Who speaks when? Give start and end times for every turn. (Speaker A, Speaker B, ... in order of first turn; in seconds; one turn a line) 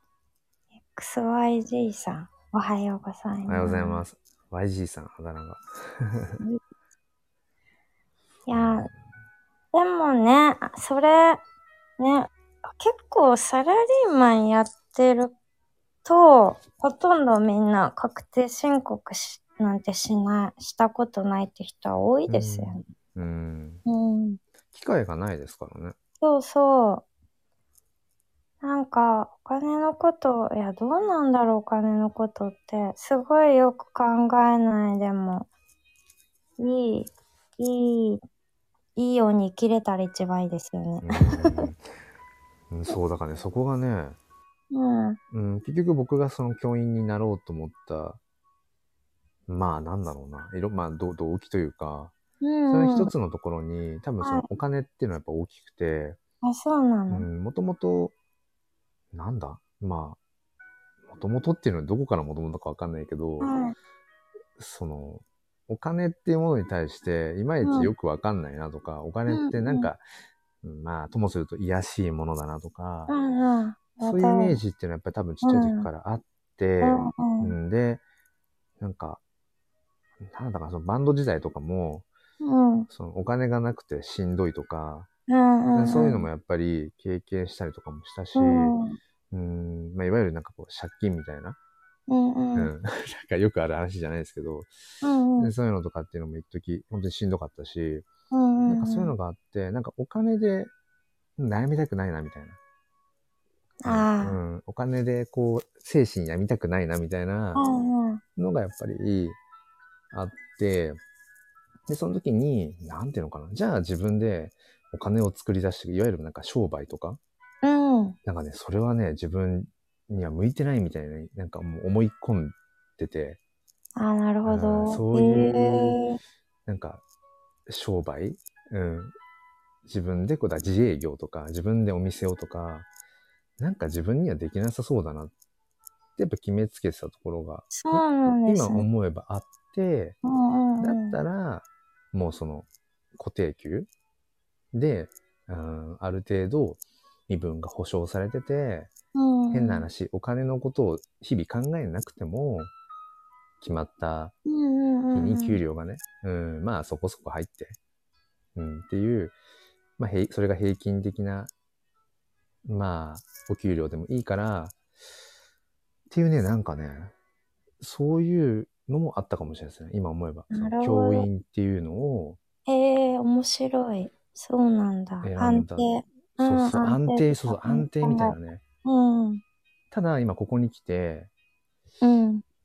Speaker A: 0.9-4.0
Speaker B: 3.5-6.4
Speaker A: 8.5-8.9
Speaker B: 8.5-8.9
Speaker A: 9.7-11.4
Speaker A: 12.0-15.3
Speaker A: 16.1-22.9
Speaker B: 22.3-23.8
Speaker A: 23.9-24.4
Speaker B: 24.7-26.0
Speaker A: 26.2-27.1
Speaker A: 28.6-35.5
Speaker A: 36.6-38.2
Speaker A: 39.0-41.5
Speaker B: 41.0-41.8
Speaker B: 42.7-44.2
Speaker A: 44.7-45.2
Speaker B: 45.3-48.2
Speaker B: 49.5-52.1
Speaker A: 52.4-53.1
Speaker B: 52.7-56.2
Speaker A: 54.2-54.5
Speaker A: 56.4-57.3
Speaker B: 57.1-58.1
Speaker B: 59.1-60.2
Speaker B: 61.1-63.5
Speaker A: 63.4-63.7
Speaker B: 64.6-70.0
Speaker A: 67.6-67.9
Speaker A: 69.3-69.9
Speaker B: 70.6-73.1
Speaker A: 73.1-74.6
Speaker B: 74.0-78.0
Speaker A: 75.4-75.9
Speaker A: 76.8-77.5
Speaker B: 78.8-79.2
Speaker B: 80.2-82.1
Speaker A: 82.4-82.9
Speaker B: 82.9-85.1
Speaker A: 85.3-86.3
Speaker B: 85.8-88.8
Speaker A: 88.3-89.0
Speaker B: 89.3-91.6
Speaker A: 92.1-92.7
Speaker B: 92.5-94.7
Speaker A: 95.0-95.5
Speaker B: 95.4-98.1
Speaker A: 98.3-99.1
Speaker B: 98.7-100.7
Speaker B: 101.4-102.6
Speaker A: 103.8-104.4
Speaker B: 103.8-107.6
Speaker A: 107.5-108.2
Speaker B: 108.4-109.4
Speaker B: 110.1-111.0
Speaker B: 111.9-117.2
Speaker A: 117.6-118.2
Speaker B: 118.2-123.4
Speaker A: 124.0-126.2
Speaker B: 124.5-126.0
Speaker B: 126.7-127.0
Speaker B: 127.7-129.1
Speaker B: 129.9-132.9
Speaker B: 133.6-135.3
Speaker B: 136.2-140.2
Speaker A: 137.7-138.9
Speaker A: 140.2-141.2
Speaker B: 140.8-143.9
Speaker B: 144.7-148.9
Speaker A: 149.2-149.9
Speaker B: 149.5-152.7
Speaker B: 153.6-154.3
Speaker A: 154.5-155.6
Speaker B: 155.1-157.8
Speaker B: 158.6-159.3
Speaker B: 160.0-161.5
Speaker B: 162.7-164.8
Speaker B: 166.1-167.1
Speaker B: 167.8-172.4
Speaker A: 170.5-171.3
Speaker A: 172.7-179.4
Speaker B: 175.2-178.6
Speaker B: 179.9-181.3
Speaker A: 182.0-182.4